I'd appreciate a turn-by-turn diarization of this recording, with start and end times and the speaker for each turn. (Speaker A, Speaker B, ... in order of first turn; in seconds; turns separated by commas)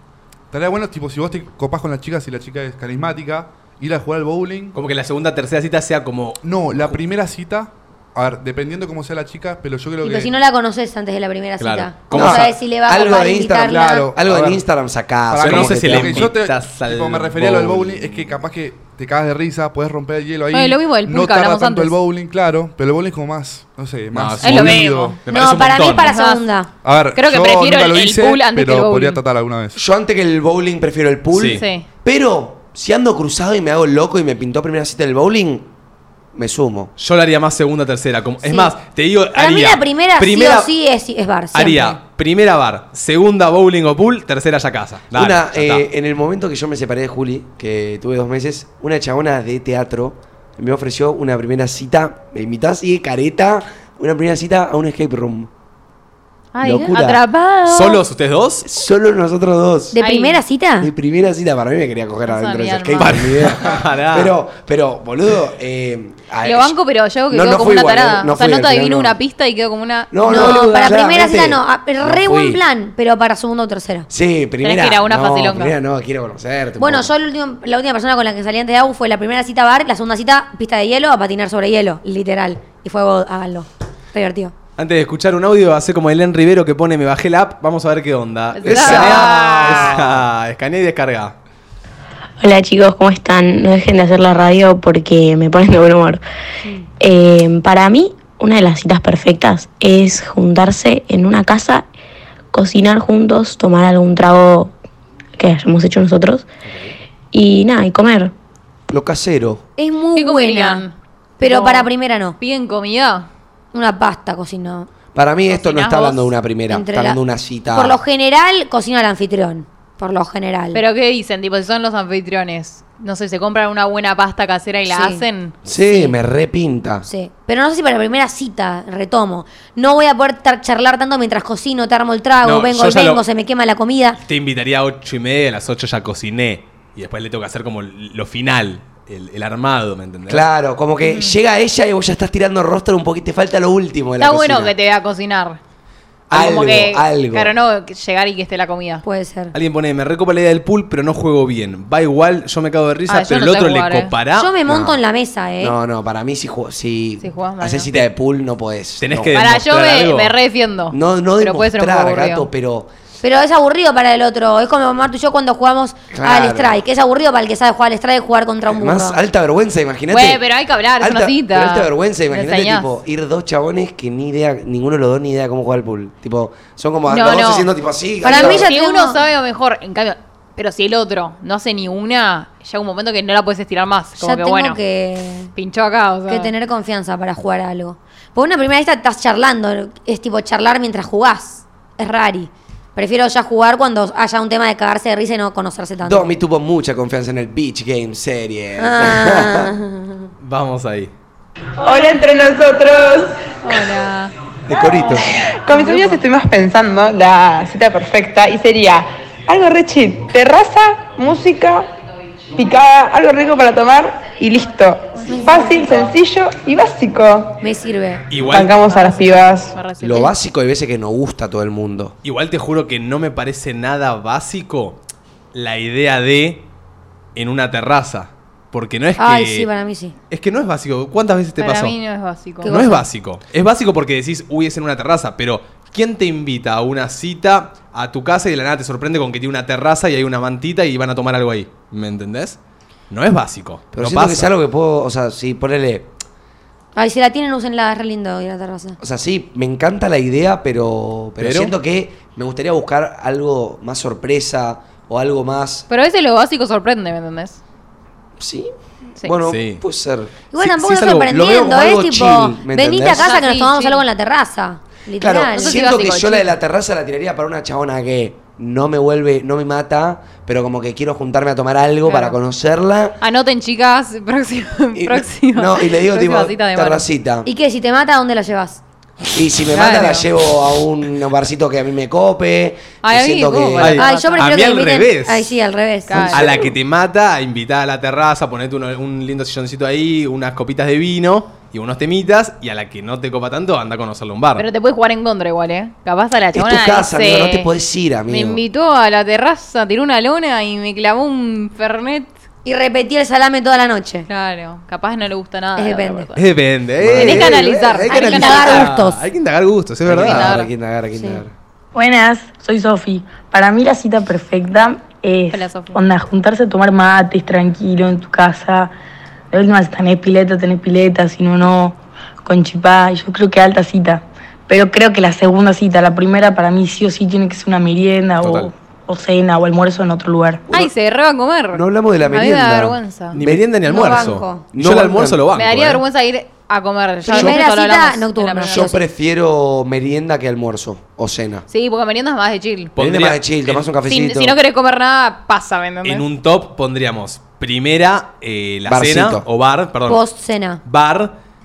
Speaker A: 0.5-4.7, Speaker B: 4.7-7.0, Speaker A: 6.4-10.3, Speaker C: 10.0-14.1, Speaker B: 11.6-12.5, Speaker D: 12.1-16.3, Speaker A: 13.7-14.6, Speaker A: 15.3-25.2, Speaker B: 15.4-18.3, Speaker E: 20.5-22.0, Speaker B: 24.1-26.1, Speaker E: 24.4-25.2, Speaker C: 25.3-26.7, Speaker E: 26.0-26.4, Speaker A: 26.8-29.8, Speaker E: 27.1-29.2, Speaker D: 29.7-35.7, Speaker B: 31.3-31.6, Speaker E: 31.5-31.9, Speaker D: 36.3-36.9, Speaker B: 37.0-40.7, Speaker C: 38.4-38.7, Speaker C: 39.3-42.0, Speaker B: 41.5-45.8, Speaker D: 45.1-55.5, Speaker E: 56.5-58.0, Speaker D: 56.6-57.2, Speaker B: 57.6-58.6, Speaker D: 58.6-60.0, Speaker C: 59.9-60.9, Speaker E: 60.0-60.4, Speaker D: 60.8-66.7, Speaker E: 62.2-63.2, Speaker B: 63.0-64.3, Speaker E: 66.4-70.9, Speaker D: 67.3-69.2, Speaker D: 70.1-72.6, Speaker C: 70.2-74.1, Speaker D: 74.1-77.1, Speaker E: 74.6-75.8, Speaker C: 76.8-84.5, Speaker B: 84.8-91.3, Speaker E: 88.5-89.9, Speaker D: 88.6-90.2, Speaker F: 92.4-96.2, Speaker F: 97.0-101.8, Speaker F: 102.5-104.7, Speaker F: 105.4-106.4, Speaker B: 106.7-106.9, Speaker F: 107.3-108.3, Speaker D: 108.9-109.6, Speaker C: 109.8-110.8, Speaker E: 110.1-113.3, Speaker C: 111.4-112.3, Speaker C: 113.7-114.9, Speaker D: 115.1-118.0, Speaker E: 115.5-116.3, Speaker C: 116.7-120.8, Speaker E: 120.7-125.5, Speaker C: 124.9-126.1, Speaker D: 125.7-127.1, Speaker C: 127.0-134.2, Speaker B: 132.4-133.2, Speaker B: 134.2-140.4, Speaker D: 140.3-144.7, Speaker E: 141.0-141.3, Speaker E: 144.2-145.6, Speaker D: 146.3-147.5, Speaker E: 146.3-149.0, Speaker C: 149.0-149.5, Speaker B: 149.5-154.5, Speaker E: 153.1-154.1, Speaker C: 154.3-155.8, Speaker D: 154.7-155.0, Speaker D: 155.6-159.3, Speaker E: 157.2-157.9, Speaker B: 159.0-160.3, Speaker E: 159.3-162.5, Speaker D: 160.9-162.9, Speaker C: 163.2-169.2, Speaker D: 166.1-166.8, Speaker D: 168.7-170.4, Speaker E: 170.1-172.9, Speaker D: 171.0-178.7, Speaker E: 177.1-177.7, Speaker C: 178.2-179.2, Speaker E: 178.2-184.8, Speaker C: 184.2-185.5, Speaker E: 185.6-186.5, Speaker C: 186.3-196.3, Speaker D: 196.0-199.7, Speaker C: 198.8-200.2, Speaker B: 200.4-201.1, Speaker G: 201.8-203.3, Speaker E: 203.6-204.3, Speaker D: 204.7-205.3, Speaker G: 205.4-211.9, Speaker G: 212.5-217.6, Speaker C: 215.3-216.0, Speaker C: 217.6-218.2, Speaker B: 218.3-218.8, Speaker G: 218.4-219.8, Speaker E: 218.7-220.3, Speaker D: 220.0-222.1, Speaker B: 222.2-225.0, Speaker B: 225.5-226.7, Speaker B: 227.3-229.7, Speaker C: 229.2-230.1, Speaker B: 230.3-231.9, Speaker E: 231.6-232.7, Speaker C: 232.6-233.1, Speaker B: 232.7-242.6, Speaker B: 243.1-244.5, Speaker D: 243.9-246.1, Speaker C: 246.9-249.0, Speaker D: 249.0-255.9, Speaker B: 251.4-251.7, Speaker E: 255.9-257.6, Speaker D: 258.4-258.7, Speaker D: 259.2-260.4, Speaker B: 259.4-259.8, Speaker C: 260.5-266.1, Speaker B: 260.6-261.3, Speaker D: 261.3-263.3, Speaker E: 263.1-264.0, Speaker D: 265.2-273.2, Speaker E: 265.5-266.6, Speaker E: 272.0-272.4, Speaker E: 273.2-277.1, Speaker D: 274.9-277.5, Speaker C: 277.4-278.8, Speaker D: 279.3-284.0, Speaker E: 279.7-280.3, Speaker E: 283.0-284.5, Speaker B: 283.8-285.5, Speaker C: 283.9-286.5, Speaker E: 286.1-286.5, Speaker B: 286.3-294.6, Speaker D: 286.3-286.7, Speaker E: 294.6-297.7, Speaker D: 296.5-298.6, Speaker E: 298.3-302.3, Speaker C: 302.6-304.3, Speaker E: 304.3-306.5, Speaker C: 305.8-306.3, Speaker B: 306.4-310.6, Speaker D: 307.0-307.8, Speaker E: 307.1-308.9, Speaker C: 308.1-309.2, Speaker D: 310.1-311.5, Speaker E: 310.2-310.7, Speaker C: 311.1-311.4, Speaker H: 311.9-318.9, Speaker E: 315.5-316.0, Speaker H: 319.5-330.6, Speaker B: 328.4-328.7, Speaker E: 330.7-333.3, Speaker D: 331.7-334.2, Speaker B: 333.3-336.0, Speaker C: 333.8-334.6, Speaker D: 334.7-335.4, Speaker E: 335.5-338.9, Speaker D: 337.2-337.6, Speaker C: 337.2-339.0, Speaker D: 338.7-341.6, Speaker E: 341.7-342.9, Speaker B: 342.9-343.9, Speaker D: 343.0-344.6, Speaker E: 344.1-346.2, Speaker B: 346.0-350.2, Speaker D: 348.9-349.4, Speaker C: 350.1-350.8, Speaker B: 350.8-351.3